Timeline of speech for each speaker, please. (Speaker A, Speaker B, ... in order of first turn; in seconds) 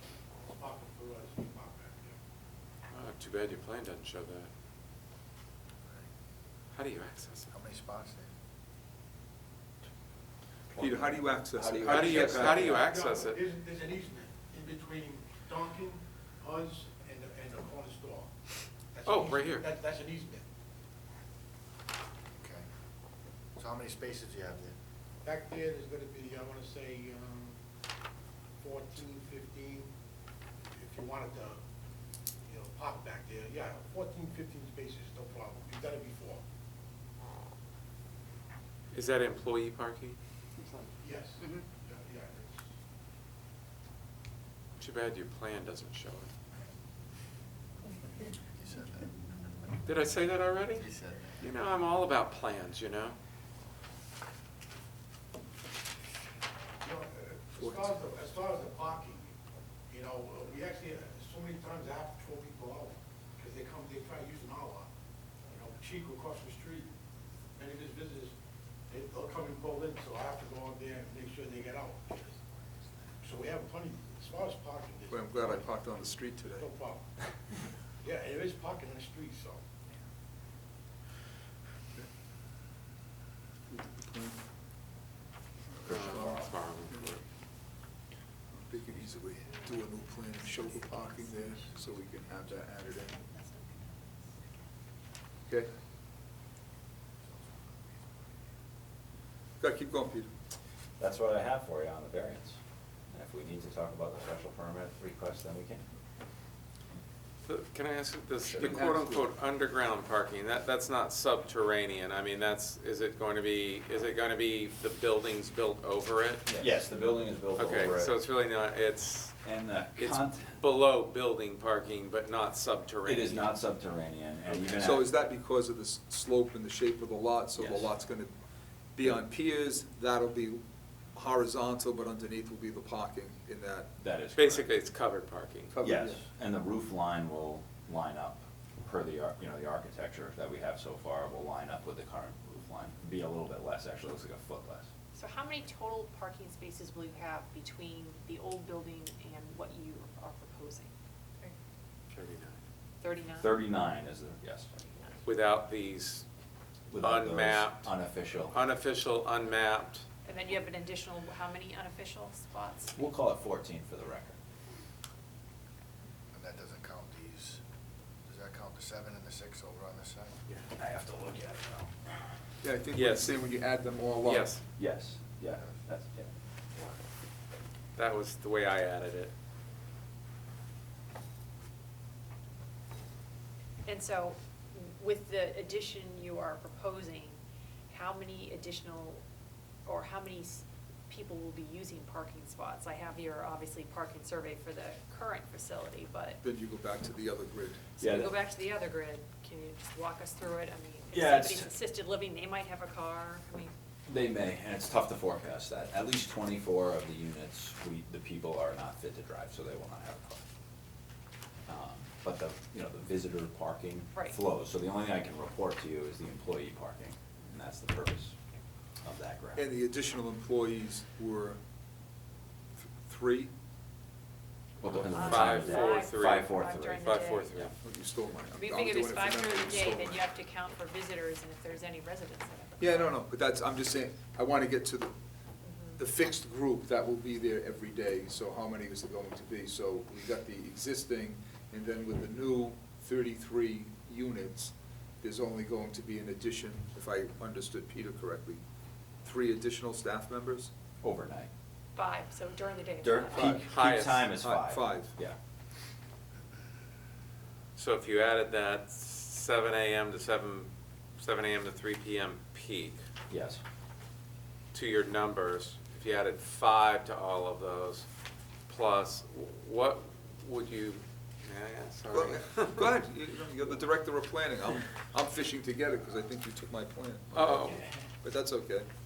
Speaker A: 0.4-2.2, 12.4-18.3, 18.9-20.5, 25.2-27.6, 28.6-29.9, 30.7-31.6, 32.5-36.4, 41.0-42.6, 56.8-59.3, 59.9-64.9, 65.5-66.9, 67.6-68.3, 68.9-72.4, 73.2-77.1, 78.0-79.7
Speaker B: 2.9-4.5, 6.7-7.5, 11.8-13.4, 19.1-19.7, 38.9-41.6, 44.8-46.3, 49.9-50.9, 51.4-53.2, 85.9-87.2, 107.5-116.5, 117.6-119.3, 120.0-123.5, 134.4-135.7, 152.1-152.6, 155.2-156.3, 157.0-157.9, 158.5-160.1, 172.9-173.4, 174.2-174.6, 178.0-179.3, 225.1-227.7, 253.4-254.3, 257.8-263.0, 264.7-268.1, 268.7-272.9, 277.3-277.9
Speaker C: 7.5-8.3, 22.3-22.7, 23.6-24.8, 48.4-49.3, 50.7-51.5, 97.3-98.2, 166.3-167.6, 168.2-170.4
Speaker D: 10.8-12.8, 101.0-102.6, 103.1-105.8, 116.5-118.2, 119.4-120.6, 123.0-125.1, 127.6-127.9, 134.0-134.8, 135.8-144.9, 153.4-154.7, 156.9-158.6, 162.9-164.4, 170.8-171.9, 174.8-176.3, 198.0-198.4, 201.1-201.7, 204.1-210.4, 211.7-218.3, 219.0-219.7, 224.8-227.1, 251.0-251.5, 253.0-255.4, 263.3-263.6
Speaker E: 10.8-12.9, 57.5-58.0, 75.1-76.7, 83.7-84.4, 85.7-87.1, 88.5-93.2, 99.6-100.3, 108.5-109.3, 124.6-128.3, 128.9-133.9, 135.7-136.2, 172.6-174.6, 196.4-197.9, 219.6-221.6, 222.8-223.5, 227.8-230.2, 232.8-235.1, 236.0-248.6, 249.2-250.7, 253.4-253.6, 254.4-255.1, 272.1-278.9
Speaker F: 90.4-91.7, 93.1-94.4, 145.1-151.6, 153.0-153.5, 154.8-155.2, 160.2-163.1, 183.9-187.4, 187.9-189.2, 189.8-196.4, 198.0-203.7, 225.1-227.7, 228.5-233.1, 235.6-236.0, 251.9-253.6